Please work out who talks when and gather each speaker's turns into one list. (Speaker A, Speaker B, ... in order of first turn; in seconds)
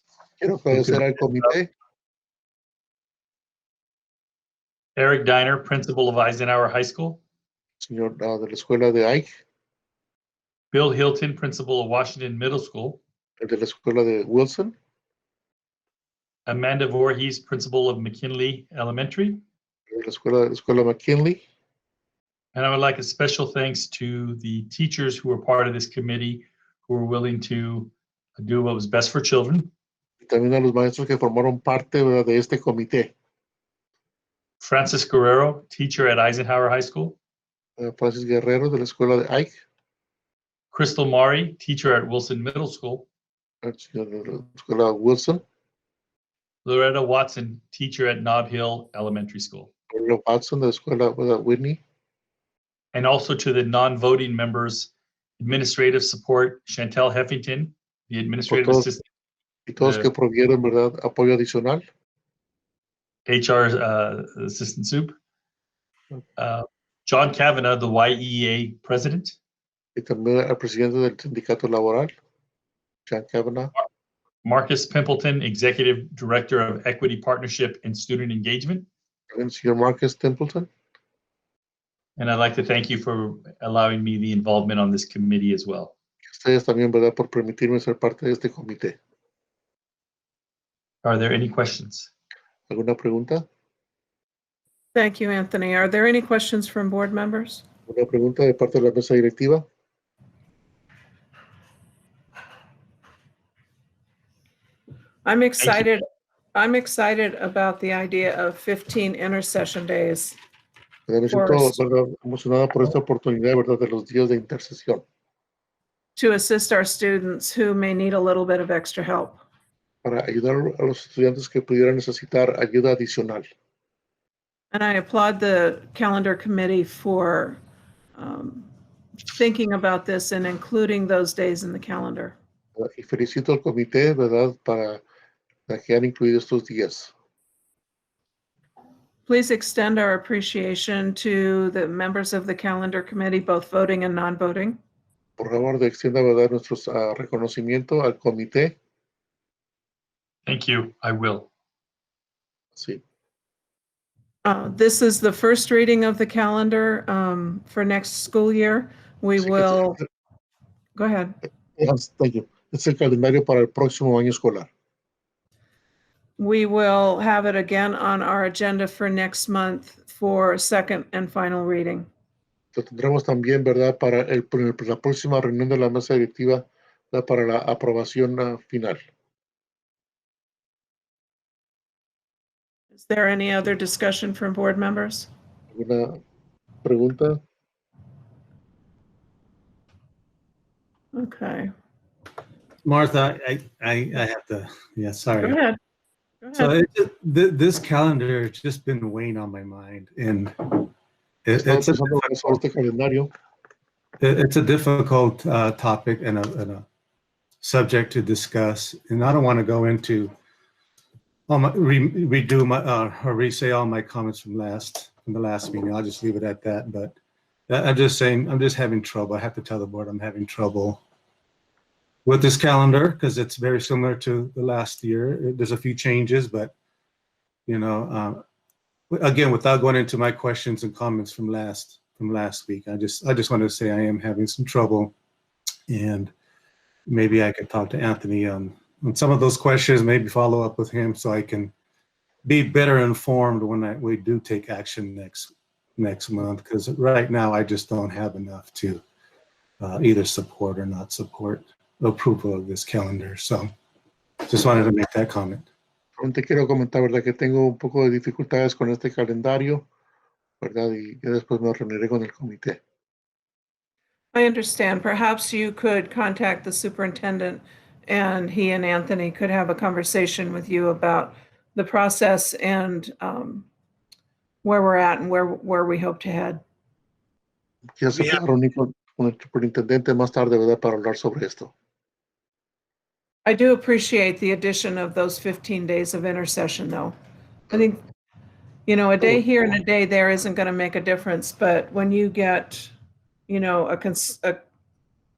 Speaker A: 0.4-1.7, 7.8-9.3, 13.4-14.7, 19.9-21.4, 30.2-33.1, 37.8-39.5, 43.6-45.4, 49.9-51.8, 58.5-58.9, 59.7-61.8, 70.0-72.1, 73.1-73.7, 79.3-80.7, 86.3-89.0, 92.7-93.5, 97.9-99.6, 111.1-115.0, 120.0-123.5, 132.8-135.0, 135.7-137.1, 145.4-148.8, 152.7-153.0, 161.8-164.7, 172.7-179.0, 185.7-186.2, 186.8-187.4, 201.6-203.3, 256.2-259.9, 260.6-262.8, 278.0-281.7
Speaker B: 0.7-1.5, 5.0-7.2, 10.7-13.0, 16.5-19.4, 22.5-29.7, 34.6-37.2, 40.7-43.1, 46.6-49.7, 52.9-59.0, 59.8-60.1, 63.3-65.1, 66.4-69.4, 74.4-78.9, 82.2-85.9, 91.0-92.1, 105.6-105.9, 150.4-151.5
Speaker C: 94.9-97.6, 105.2-106.0, 106.5-110.4, 111.3-111.8, 116.2-119.4, 124.7-127.6, 128.2-128.7, 129.3-132.3, 139.3-144.8, 154.4-160.0, 160.9-161.3, 166.4-172.1, 182.9-185.3, 191.1-191.7, 195.4-195.8, 196.4-196.7, 264.3-273.7, 274.6-276.6, 283.4-287.1, 287.7-288.0, 288.9-292.9, 293.5-294.6
Speaker D: 192.8-195.6, 196.5-200.9, 201.4-202.4, 204.2-206.8, 207.6-210.3, 211.5-217.2, 217.7-221.0, 222.2-226.7, 227.7-228.4, 229.1-235.1, 235.9-236.3, 237.1-241.7, 242.4-249.0, 249.8-253.7, 254.4-255.7